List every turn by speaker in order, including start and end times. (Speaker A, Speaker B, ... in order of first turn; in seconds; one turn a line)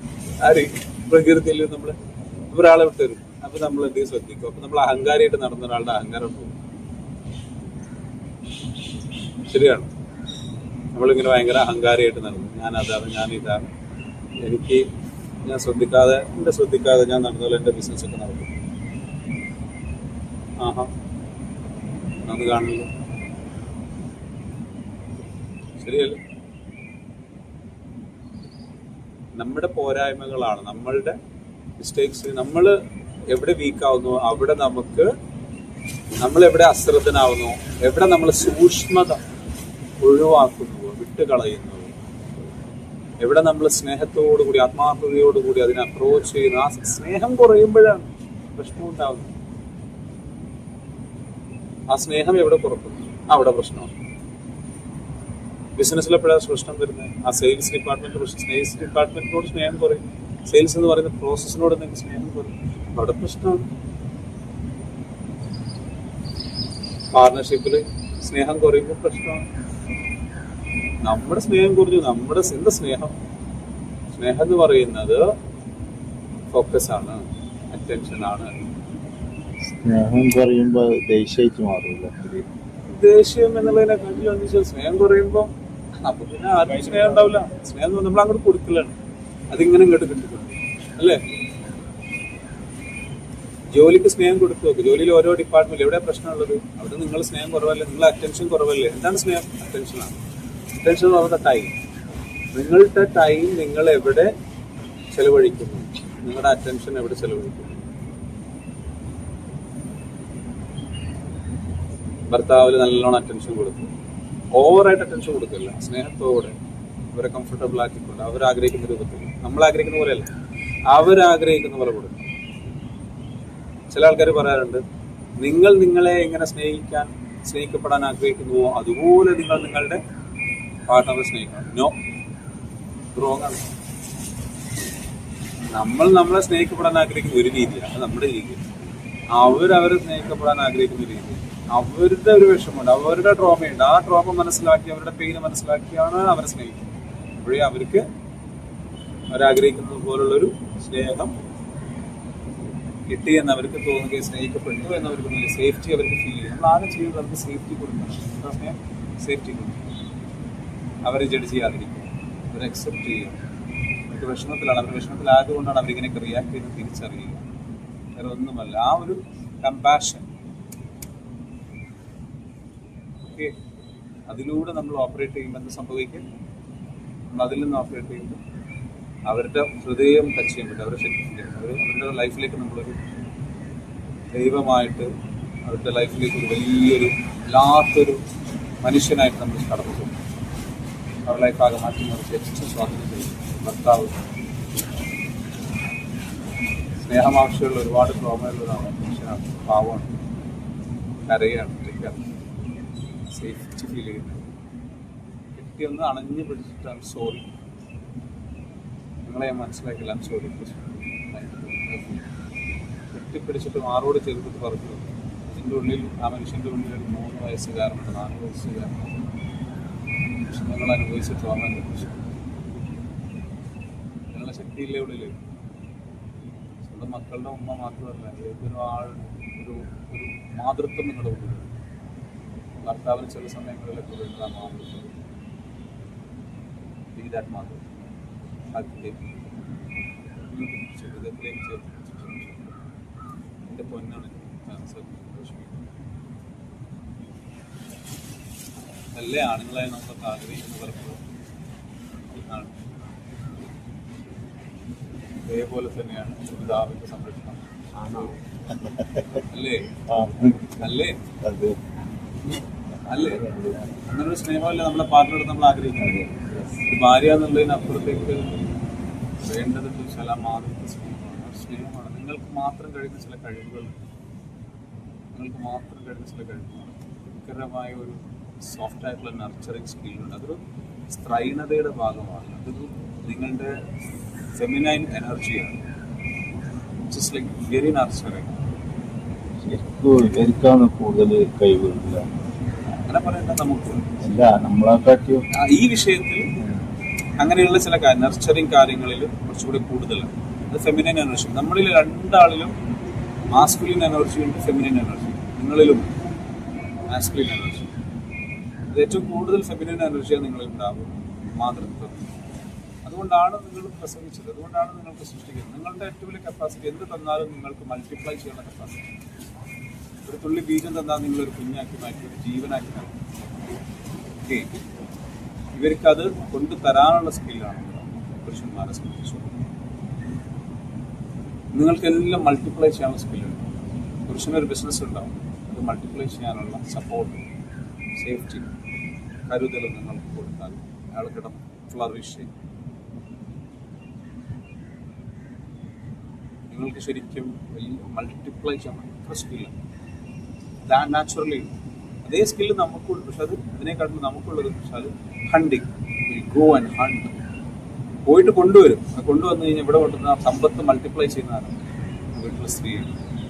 Speaker A: 0.4-6.5
Speaker A: 9.5-9.9
Speaker A: 10.9-13.7
Speaker A: 14.4-14.9
Speaker A: 15.4-18.5
Speaker A: 20.6-20.9
Speaker A: 22.2-22.9
Speaker A: 25.8-26.2
Speaker A: 29.4-31.2
Speaker A: 31.8-32.8
Speaker A: 33.3-35.1
Speaker A: 36.2-39.2
Speaker A: 40.0-42.0
Speaker A: 43.2-49.4
Speaker A: 51.9-53.9
Speaker A: 55.8-63.7
Speaker A: 67.1-69.5
Speaker A: 71.0-73.2
Speaker A: 74.2-75.3
Speaker A: 76.5-78.7
Speaker B: 79.7-82.5
Speaker A: 82.9-85.5
Speaker A: 86.0-89.0
Speaker B: 86.8-87.2
Speaker A: 89.5-91.2
Speaker A: 93.7-100.2
Speaker A: 100.8-101.8
Speaker A: 102.5-104.3
Speaker A: 105.1-107.9
Speaker A: 112.3-113.9
Speaker A: 114.5-116.5
Speaker A: 117.1-120.3
Speaker A: 120.9-122.2
Speaker A: 123.9-124.8
Speaker A: 125.4-130.0
Speaker A: 130.9-132.0
Speaker A: 133.1-133.7
Speaker A: 135.7-138.7
Speaker A: 139.3-146.9
Speaker A: 147.4-148.1
Speaker A: 149.3-151.3
Speaker A: 153.1-159.8
Speaker A: 161.0-163.4
Speaker A: 164.1-167.4
Speaker A: 168.2-170.3
Speaker A: 173.3-173.6
Speaker A: 174.3-176.3
Speaker A: 177.3-178.4
Speaker A: 179.3-183.0
Speaker A: 184.3-185.1
Speaker A: 185.7-188.2
Speaker A: 188.8-190.1
Speaker A: 191.3-194.2
Speaker A: 197.0-200.1
Speaker A: 201.3-202.2
Speaker A: 203.3-204.5
Speaker A: 205.6-207.5
Speaker A: 209.2-212.3
Speaker A: 213.1-219.2
Speaker A: 220.5-222.3
Speaker A: 224.3-225.4
Speaker A: 226.8-231.7
Speaker A: 232.8-235.1
Speaker A: 237.2-237.8
Speaker A: 238.7-239.2
Speaker A: 240.5-242.8
Speaker A: 243.7-245.8
Speaker A: 249.1-251.2
Speaker A: 252.3-252.7
Speaker A: 255.5-258.3
Speaker B: 258.7-259.4
Speaker A: 259.5-260.0
Speaker B: 260.1-260.8
Speaker A: 260.8-261.2
Speaker B: 261.4-261.8
Speaker A: 263.1-266.3
Speaker B: 263.1-263.9
Speaker B: 266.0-266.6
Speaker A: 266.8-268.6
Speaker A: 269.4-273.9
Speaker A: 275.3-283.9
Speaker A: 284.5-285.8
Speaker A: 287.1-288.6
Speaker B: 289.6-292.3
Speaker A: 293.1-294.1
Speaker B: 294.2-295.5
Speaker A: 295.5-296.5
Speaker B: 296.6-296.9
Speaker A: 297.4-302.8
Speaker A: 303.5-306.2
Speaker A: 307.1-307.9
Speaker A: 308.9-312.3
Speaker A: 313.0-319.0
Speaker A: 320.3-323.2
Speaker A: 324.4-324.7
Speaker A: 325.8-329.6
Speaker A: 331.7-333.7
Speaker A: 334.3-337.4
Speaker A: 338.2-338.7
Speaker A: 339.5-342.5
Speaker A: 346.7-349.7
Speaker A: 350.9-351.7
Speaker A: 352.2-357.4
Speaker A: 358.3-361.8
Speaker A: 362.3-363.1